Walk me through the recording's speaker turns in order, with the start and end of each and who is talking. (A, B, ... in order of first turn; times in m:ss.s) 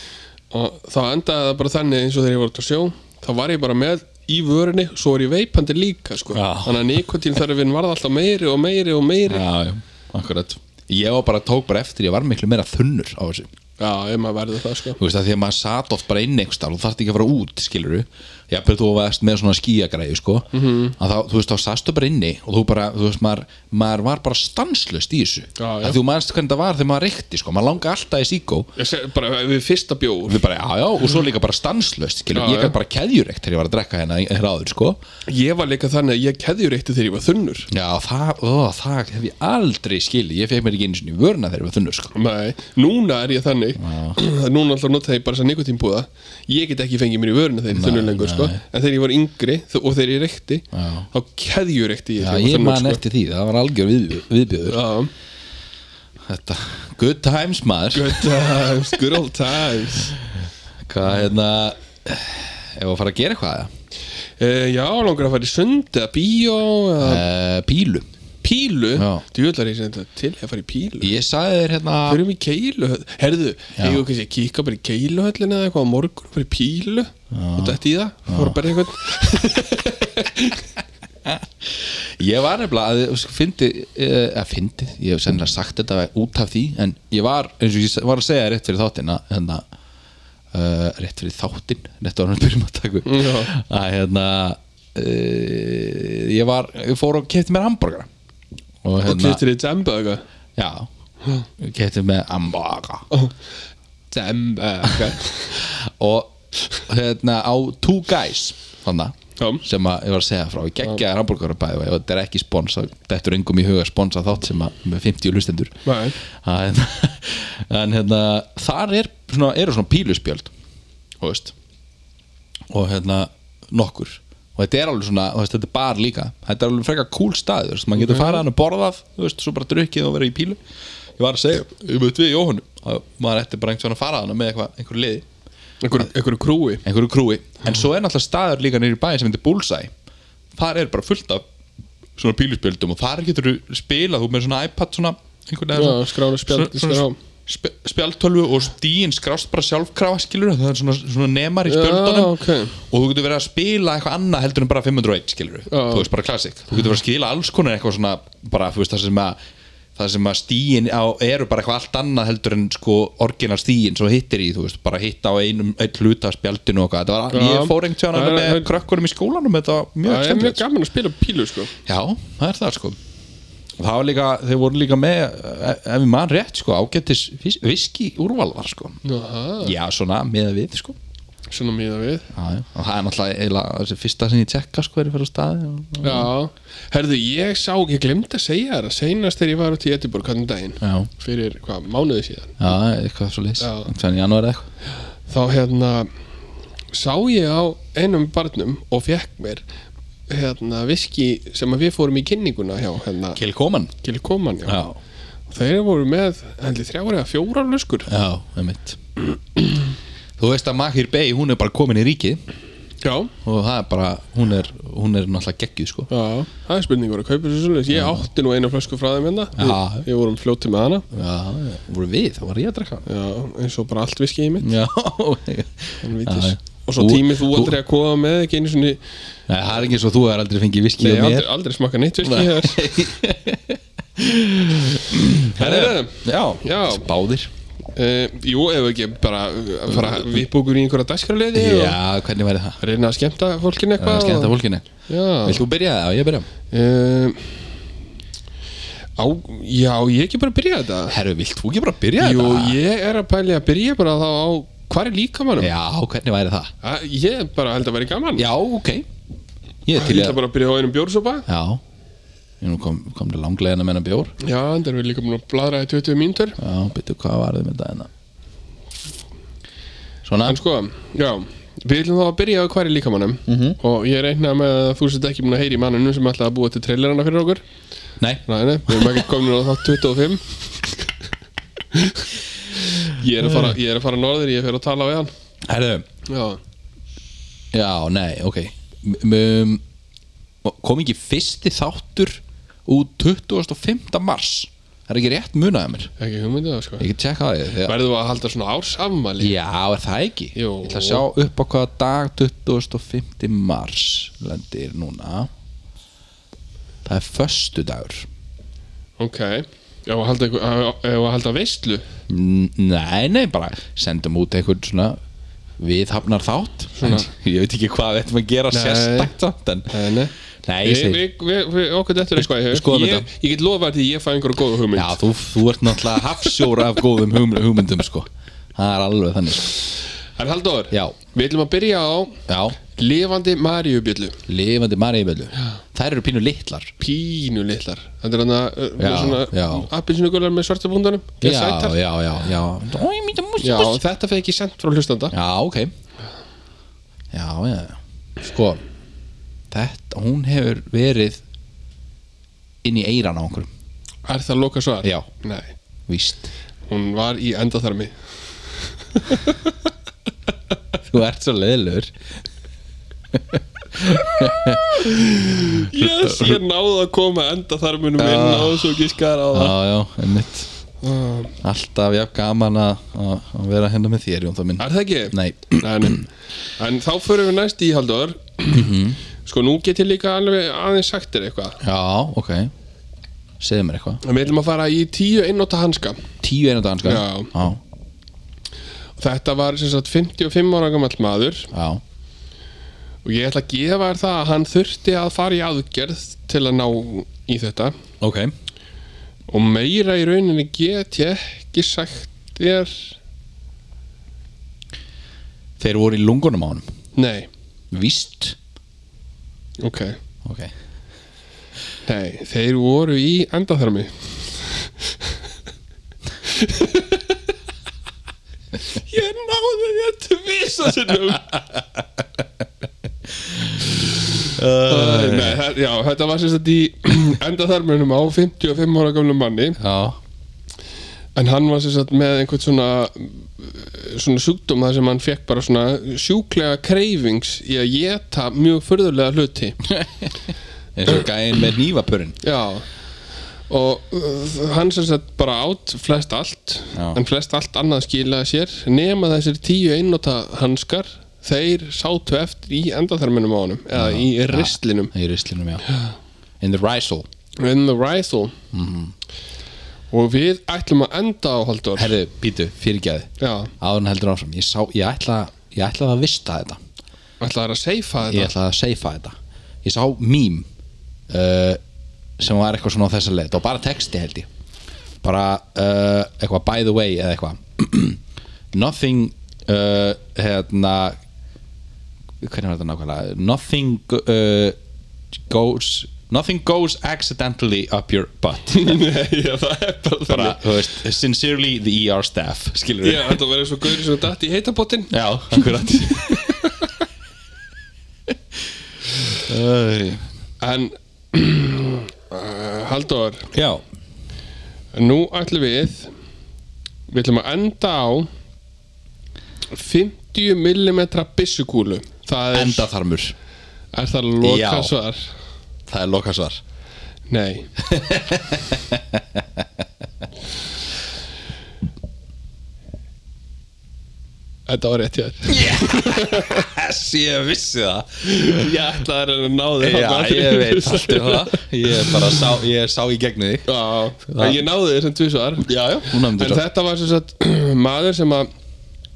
0:00.5-0:09.4 A
0:06.3-0:07.0 B
0:09.3-0:13.5 B
0:13.8-0:15.0 A
0:15.0-0:28.7 B
0:20.5-0:20.9 A
0:25.6-0:26.0 A
0:28.8-0:30.4 A
0:30.3-0:35.0 B
0:32.3-0:32.7 A
0:35.3-0:37.7 A
0:37.7-0:42.1 B
0:42.1-0:53.0 A
0:43.8-0:44.2 B
0:47.7-0:48.6 B
0:50.7-0:51.1 B
0:52.2-0:54.8 B
0:54.7-0:55.1 A
0:56.2-0:58.4 B
0:57.9-1:00.2 A
1:00.8-1:03.7 B
1:04.4-1:07.2 A
1:07.0-1:08.0 B
1:08.4-1:11.1 A
1:09.0-1:09.2 B
1:11.0-1:12.2 B
1:12.0-1:20.7 A
1:13.8-1:14.0 B
1:17.3-1:18.6 B
1:21.2-1:29.6 B
1:30.5-1:38.1 B
1:33.0-1:33.5 A
1:38.8-1:39.4 B
1:39.0-1:40.2 A
1:40.6-1:40.9 B
1:41.6-1:43.0 B
1:44.1-1:45.6 A
1:44.8-2:00.5 B
1:49.4-1:49.6 A
1:55.8-1:56.2 A
2:01.2-2:01.5 B
2:02.7-2:10.6 B
2:08.0-2:08.4 A
2:11.2-2:15.2 B
2:15.8-2:16.8 A
2:16.8-2:19.9 B
2:20.6-2:21.4 B
2:22.2-2:39.4 B
2:25.7-2:27.2 A
2:31.6-2:32.8 A
2:35.7-2:36.1 A
2:40.0-2:50.6 B
2:47.3-2:48.7 A
2:50.0-2:51.7 A
2:51.8-2:53.0 B
2:53.8-2:59.0 B
2:59.0-2:59.7 A
2:59.6-3:01.0 B
3:01.5-3:02.3 A
3:02.3-3:06.3 B
3:06.0-3:12.6 A
3:10.8-3:11.1 B
3:12.6-3:14.7 B
3:13.6-3:13.9 A
3:15.3-3:16.1 A
3:16.9-3:19.6 A
3:20.3-3:23.4 A
3:23.4-3:23.9 B
3:24.0-3:24.8 A
3:24.6-3:25.0 B
3:25.5-3:28.1 A
3:28.1-3:29.0 B
3:30.4-3:32.4 B
3:33.0-3:33.3 A
3:33.4-3:36.1 B
3:36.1-3:41.1 A
3:37.9-3:38.2 B
3:39.6-3:40.0 B
3:41.1-3:43.0 B
3:43.0-3:44.7 A
3:44.6-3:47.8 B
3:46.0-3:49.0 A
3:49.5-3:51.5 B
3:51.0-3:52.9 A
3:52.2-3:57.5 B
3:55.5-3:57.0 A
3:58.0-4:02.0 A
3:59.9-4:00.4 B
4:01.5-4:02.8 B
4:02.8-4:04.6 A
4:04.0-4:04.9 B
4:05.1-4:05.6 A
4:05.4-4:06.5 B
4:06.7-4:07.6 A
4:09.2-4:11.1 A
4:11.1-4:12.8 B
4:12.2-4:15.7 A
4:15.6-4:16.7 B
4:16.8-4:18.5 A
4:18.4-4:19.0 B
4:19.8-4:20.4 B
4:19.9-4:21.4 A
4:21.5-4:21.8 B
4:22.6-4:24.3 B
4:24.4-4:26.6 A
4:26.6-4:28.1 B
4:30.2-4:30.6 B
4:30.4-4:37.6 A
4:33.5-4:33.8 B
4:38.2-4:39.2 B
4:38.5-4:40.9 A
4:41.9-4:45.3 A
4:45.7-4:46.0 B
4:46.2-4:46.6 A
4:47.7-4:49.8 B
4:50.6-4:56.1 B
4:56.2-4:57.1 A
4:57.0-4:57.9 B
4:57.8-4:59.5 A
4:59.4-5:05.5 B
5:00.5-5:01.2 A
5:07.0-5:08.3 B
5:09.2-5:12.0 A
5:12.3-5:15.2 B
5:15.8-5:19.9 B
5:17.0-5:17.3 A
5:18.7-5:19.3 A
5:19.9-5:25.2 A
5:20.6-5:21.2 B
5:22.4-5:23.3 B
5:24.9-5:29.7 B
5:30.4-5:34.4 A
5:30.9-5:31.2 B
5:32.5-5:32.8 B
5:34.5-5:36.9 B
5:37.0-5:42.0 A
5:39.0-5:39.9 B
5:41.4-5:44.0 B
5:43.6-5:45.3 A
5:45.3-5:45.9 B
5:47.3-5:48.8 B
5:49.7-5:51.4 B
5:52.8-5:53.7 B
5:54.3-5:55.7 A
5:56.1-5:56.5 B
5:56.9-5:58.2 A
5:59.1-5:59.7 A
6:01.0-6:02.1 B
6:03.3-6:06.6 B
6:05.0-6:09.7 A
6:08.2-6:10.7 B
6:11.0-6:11.6 A
6:11.6-6:16.2 B
6:14.8-6:18.9 A
6:18.7-6:19.2 B
6:19.4-6:21.8 A
6:21.8-6:22.7 B
6:23.6-6:24.2 B
6:24.2-6:26.2 A
6:26.4-6:27.8 B
6:27.0-6:27.5 A
6:29.2-6:31.7 A
6:31.7-6:32.0 B
6:33.2-6:38.0 A
6:38.2-6:38.5 B
6:39.5-6:43.1 A
6:45.8-6:46.8 B
6:47.1-6:47.5 A
6:47.9-6:48.6 B
6:49.8-6:50.2 A
6:50.4-6:50.7 B
6:52.0-6:55.1 A
6:56.4-6:57.4 A
6:58.8-7:01.6 A
7:03.5-7:05.6 B
7:04.0-7:09.8 A
7:09.8-7:10.2 B
7:11.4-7:19.8 A
7:19.8-7:22.4 B
7:22.4-7:22.8 A
7:23.7-7:35.1 A
7:26.9-7:27.2 B
7:33.9-7:35.8 B
7:35.8-7:36.1 A
7:36.6-7:37.2 B
7:37.6-7:38.5 A
7:38.7-7:39.1 B
7:40.1-7:42.2 A
7:42.0-7:46.8 B
7:43.4-7:43.7 A
7:47.4-7:48.5 A
7:48.2-7:50.6 B
7:51.3-7:51.8 B
7:52.4-7:54.5 B
7:55.2-7:58.2 B
7:58.7-8:01.2 B
8:02.4-8:04.8 B
8:05.5-8:09.0 B
8:08.7-8:10.7 A
8:10.3-8:13.4 B
8:13.0-8:16.9 A
8:15.1-8:16.7 B
8:19.4-8:20.2 B
8:20.6-8:23.5 A
8:23.5-8:23.8 B
8:24.9-8:26.1 A
8:27.1-8:28.3 A
8:29.7-8:32.9 A
8:32.5-8:33.3 B
8:33.9-8:35.3 A
8:34.4-8:34.9 B
8:35.9-8:36.6 B
8:37.3-8:37.7 A
8:37.8-8:39.6 B
8:44.7-8:46.7 A
8:45.5-8:49.0 B
8:48.2-8:52.4 A
8:49.8-8:53.7 B
8:53.7-8:58.5 A
8:54.3-8:54.6 B
8:55.6-8:56.6 B